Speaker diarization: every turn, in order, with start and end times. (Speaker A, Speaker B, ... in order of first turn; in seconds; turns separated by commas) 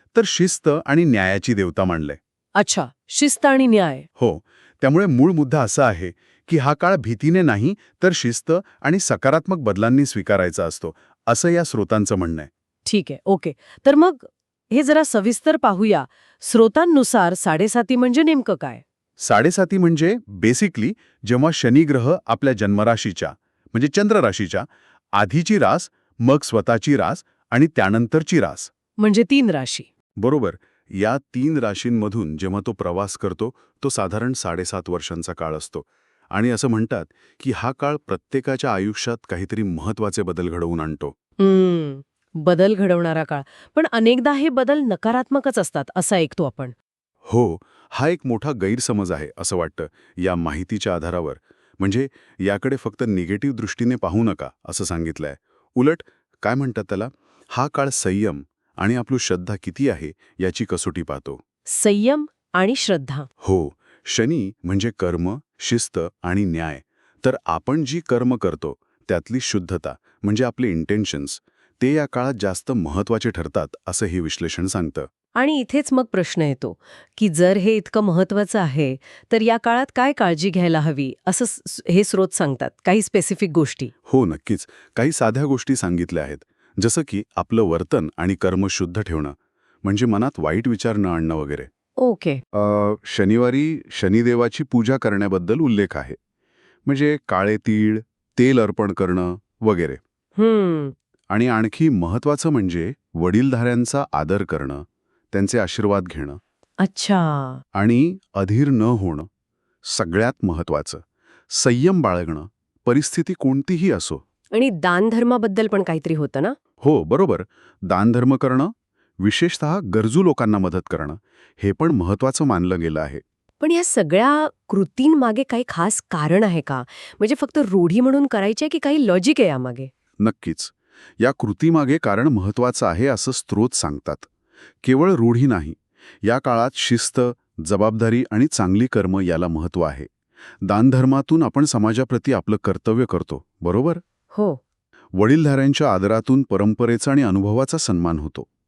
Speaker A: 0.1-2.2, Speaker B: 2.5-4.0, Speaker A: 4.2-12.5, Speaker B: 12.8-18.8, Speaker A: 19.2-28.7, Speaker B: 29.0-29.9, Speaker A: 30.2-41.1, Speaker B: 41.4-46.7, Speaker A: 47.3-61.4, Speaker B: 61.7-63.3, Speaker A: 63.4-75.1, Speaker B: 75.3-83.9, Speaker A: 84.0-91.7, Speaker B: 92.0-92.4, Speaker A: 92.5-96.2, Speaker A: 96.8-100.0, Speaker B: 100.4-100.9, Speaker A: 101.3-106.4, Speaker B: 106.8-107.6, Speaker A: 107.7-109.3, Speaker A: 109.8-114.2, Speaker B: 114.5-116.5, Speaker A: 116.8-123.2, Speaker B: 123.6-129.9, Speaker A: 130.2-134.3, Speaker A: 134.8-140.1, Speaker A: 140.6-144.0, Speaker B: 144.3-144.6, Speaker A: 145.2-148.5